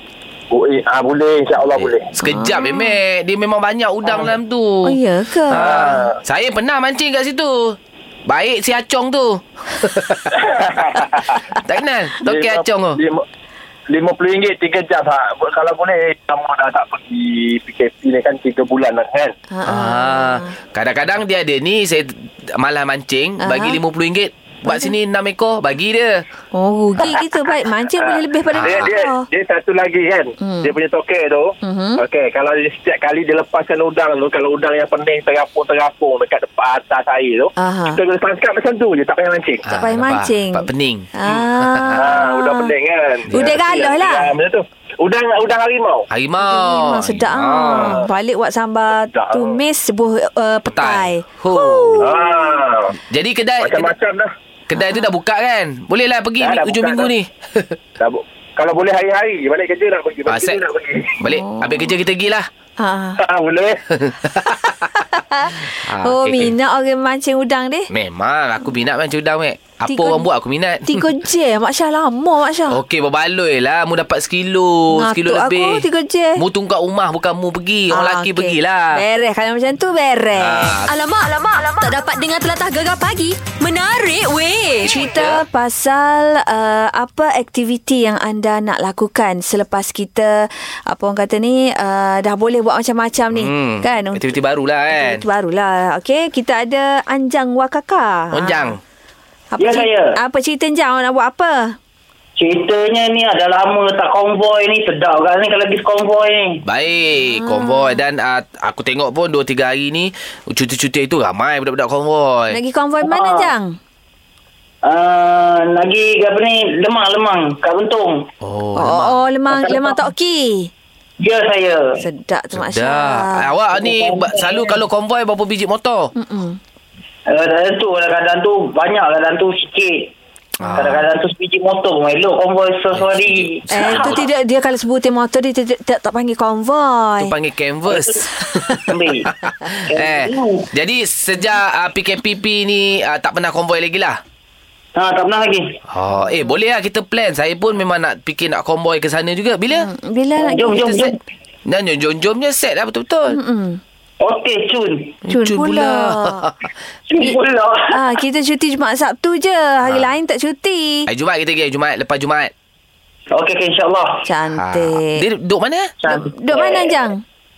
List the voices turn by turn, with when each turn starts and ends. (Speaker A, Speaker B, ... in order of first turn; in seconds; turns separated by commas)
Speaker A: 0.5-2.1, Speaker B: 1.6-5.0, Speaker C: 2.2-3.0, Speaker C: 4.8-6.0, Speaker B: 5.5-10.5, Speaker A: 5.5-6.2, Speaker A: 10.3-11.4, Speaker B: 11.6-13.0, Speaker A: 12.2-13.2, Speaker A: 13.9-19.3, Speaker C: 19.5-20.5, Speaker B: 19.6-26.2, Speaker C: 23.4-23.8, Speaker C: 26.5-29.3, Speaker A: 28.0-39.7, Speaker B: 28.5-28.9, Speaker C: 30.4-30.7, Speaker C: 31.6-32.0, Speaker C: 37.6-38.0, Speaker B: 39.6-42.1, Speaker C: 39.7-42.7, Speaker A: 42.0-46.1, Speaker B: 43.3-43.6, Speaker C: 43.3-44.3, Speaker B: 46.1-48.0, Speaker C: 46.4-52.4, Speaker A: 47.8-48.0, Speaker A: 49.0-49.6, Speaker B: 50.7-52.2, Speaker A: 52.0-52.9, Speaker B: 53.1-53.9, Speaker A: 53.6-54.3, Speaker B: 54.7-57.8, Speaker C: 54.7-55.1, Speaker A: 56.4-57.1, Speaker A: 58.0-61.2, Speaker B: 60.3-60.6, Speaker B: 61.2-62.5, Speaker C: 61.3-61.9, Speaker C: 62.8-63.2, Speaker A: 63.2-63.8, Speaker B: 64.0-65.0, Speaker C: 65.0-67.9, Speaker B: 65.7-66.5, Speaker B: 67.9-71.0, Speaker C: 69.9-70.3, Speaker C: 70.8-72.8, Speaker B: 72.7-75.8, Speaker C: 74.9-76.4, Speaker B: 76.4-79.0, Speaker C: 77.9-80.8, Speaker B: 80.3-80.9, Speaker D: 80.8-85.0, Speaker B: 84.8-85.4, Speaker C: 84.8-94.3, Speaker B: 93.3-95.2, Speaker C: 94.9-98.7, Speaker B: 98.3-98.8, Speaker C: 99.5-101.8, Speaker E: 99.6-100.1, Speaker E: 102.4-106.6, Speaker B: 106.6-112.6, Speaker C: 107.2-108.0, Speaker C: 112.5-113.8, Speaker E: 113.0-113.5, Speaker E: 114.8-118.3, Speaker B: 118.4-119.2, Speaker C: 118.8-120.7, Speaker E: 119.5-120.0, Speaker E: 121.2-122.0, Speaker C: 122.0-123.5, Speaker B: 122.5-126.1, Speaker E: 123.7-124.8, Speaker C: 126.2-126.6, Speaker E: 127.3-130.1, Speaker B: 130.6-131.0, Speaker E: 130.7-134.1, Speaker B: 132.9-134.2, Speaker C: 133.7-137.3, Speaker B: 137.2-144.2, Speaker E: 138.9-139.3, Speaker E: 139.9-140.7, Speaker E: 144.9-145.8, Speaker B: 145.9-149.9, Speaker C: 149.7-150.9, Speaker E: 150.4-151.2, Speaker B: 150.8-151.0, Speaker B: 151.7-153.4, Speaker C: 153.3-153.8, Speaker E: 154.2-155.2, Speaker B: 155.3-156.6, Speaker C: 155.3-156.4, Speaker E: 157.1-158.0, Speaker C: 157.9-161.1, Speaker B: 161.1-162.5, Speaker E: 163.3-164.2, Speaker C: 164.2-165.2, Speaker B: 164.6-165.9, Speaker E: 166.0-167.0, Speaker C: 166.1-167.2